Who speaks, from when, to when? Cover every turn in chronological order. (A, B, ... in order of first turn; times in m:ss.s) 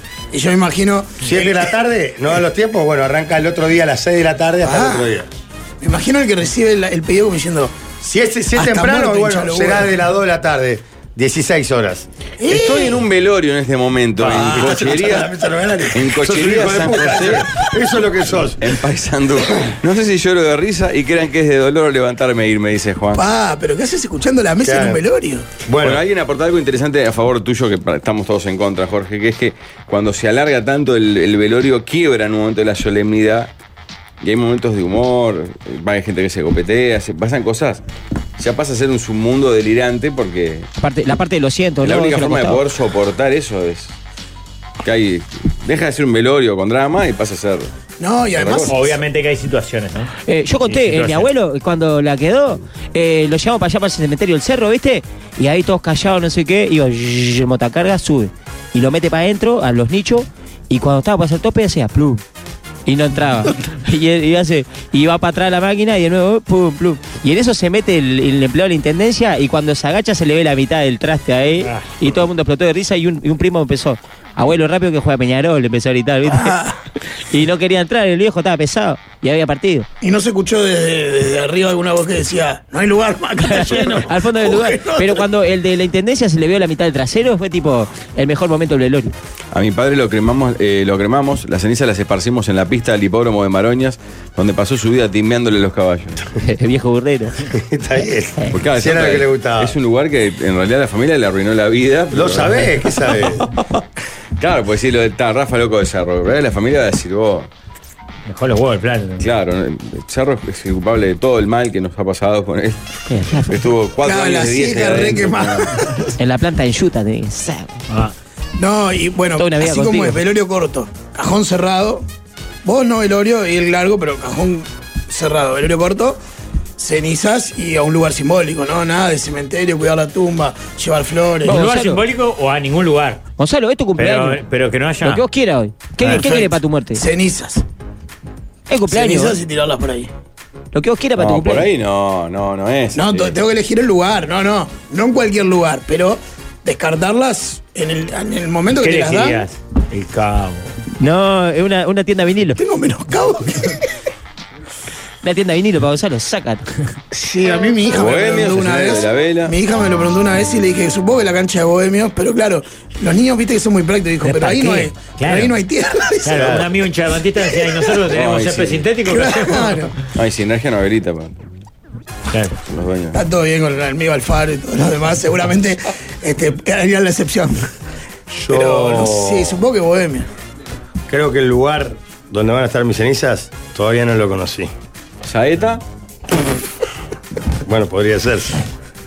0:00.3-0:01.7 A
0:01.2-0:05.3 B
0:04.6-0:05.1 A
0:05.8-0:07.7 A
0:08.0-0:12.1 B
0:08.5-0:09.9 A
0:12.4-0:13.0 A
0:12.4-0:15.3 C
0:14.2-0:18.7 B
0:15.9-0:17.6 C
0:18.6-0:23.2 C
0:23.1-0:25.5 A
0:24.6-0:25.0 B
0:25.6-0:26.0 B
0:25.8-0:33.5 C
0:34.2-0:37.8 C
0:38.4-0:40.7 C
0:40.8-0:42.6 D
0:41.8-0:43.9 C
0:44.8-0:47.7 C
0:48.0-0:48.8 A
0:48.3-0:48.8 C
0:48.7-0:50.1 E
0:50.2-1:02.2 D
0:50.7-0:51.3 E
1:02.9-1:16.6 D
1:16.3-1:16.8 A
1:17.2-1:19.9 D
1:20.0-1:25.2 A
1:23.5-1:29.1 D
1:29.5-1:36.2 C
1:36.4-1:37.4 D
1:37.5-1:39.7 B
1:38.5-1:42.6 C
1:42.1-1:43.5 B
1:44.4-1:47.5 C
1:48.3-1:49.3 E
1:49.2-1:52.8 C
1:53.1-1:53.6 D
1:53.5-1:55.8 C
1:54.0-1:56.1 A
1:56.2-1:57.8 D
1:58.6-2:02.0 A
1:59.4-2:00.2 D
2:02.6-2:06.2 A
2:06.8-2:11.6 A
2:11.4-2:12.0 D
2:11.4-2:13.2 E
2:13.4-2:14.4 D
2:14.0-2:15.2 E
2:15.0-2:17.0 D
2:16.0-2:17.6 A
2:18.7-2:19.4 D
2:18.9-2:20.1 A
2:20.7-2:21.7 D
2:21.2-2:23.4 C
2:22.9-2:29.4 A
2:28.7-2:30.7 E
2:31.0-2:32.6 D
2:32.6-2:33.9 A
2:35.2-2:36.6 D
2:37.1-2:46.6 A
2:37.9-2:39.6 C
2:44.2-2:45.6 E
2:46.2-2:49.9 E
2:46.3-2:46.7 B
2:48.1-2:48.9 C
2:49.0-2:50.0 A
2:50.1-2:51.5 C
2:52.3-2:52.6 E
2:52.7-2:53.2 C
2:53.1-2:57.7 A
2:58.4-3:00.3 A
2:58.4-2:59.6 B
3:01.1-3:04.7 B
3:05.2-3:05.8 C
3:07.6-3:08.5 B